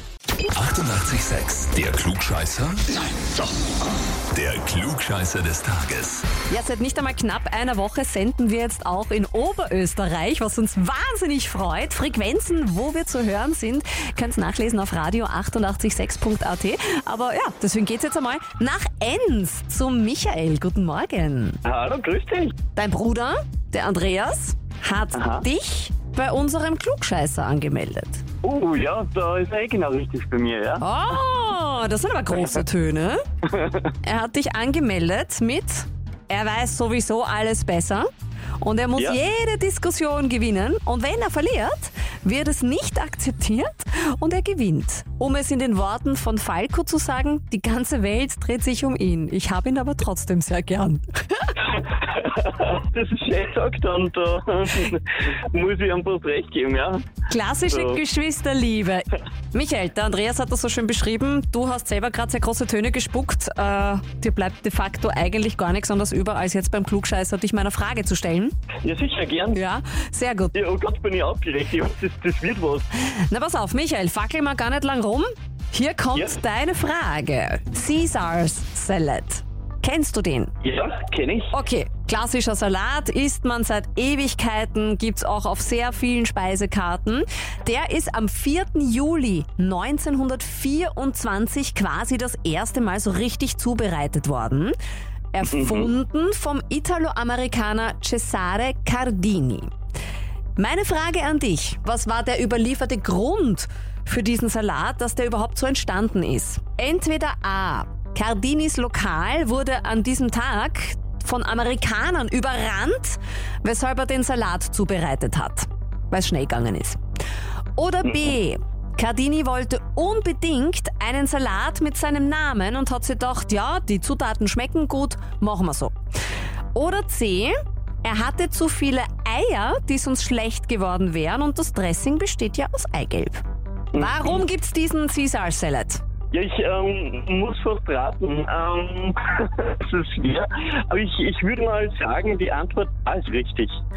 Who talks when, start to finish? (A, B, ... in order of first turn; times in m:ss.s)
0:00.7-0:02.7 A
0:04.4-0:06.2 A
0:06.5-0:21.6 B
0:21.6-0:22.6 C
0:22.7-0:28.2 B
0:25.2-0:25.4 C
0:28.4-0:30.8 C
0:30.8-0:33.2 B
0:33.4-0:33.9 C
0:34.0-0:38.1 B
0:38.6-0:51.6 B
0:51.7-0:57.0 C
0:57.3-1:08.5 B
0:57.7-0:58.0 C
1:08.8-1:09.6 C
1:09.5-1:10.6 B
1:10.5-1:12.9 C
1:13.1-1:20.5 B
1:20.6-1:21.5 C
1:21.5-1:34.7 B
1:35.3-1:39.7 B
1:35.5-1:35.9 C
1:40.6-1:57.0 B
1:57.8-2:06.0 B
2:06.7-2:13.4 B
2:13.9-2:14.4 C
2:14.0-2:16.0 B
2:16.3-2:23.8 C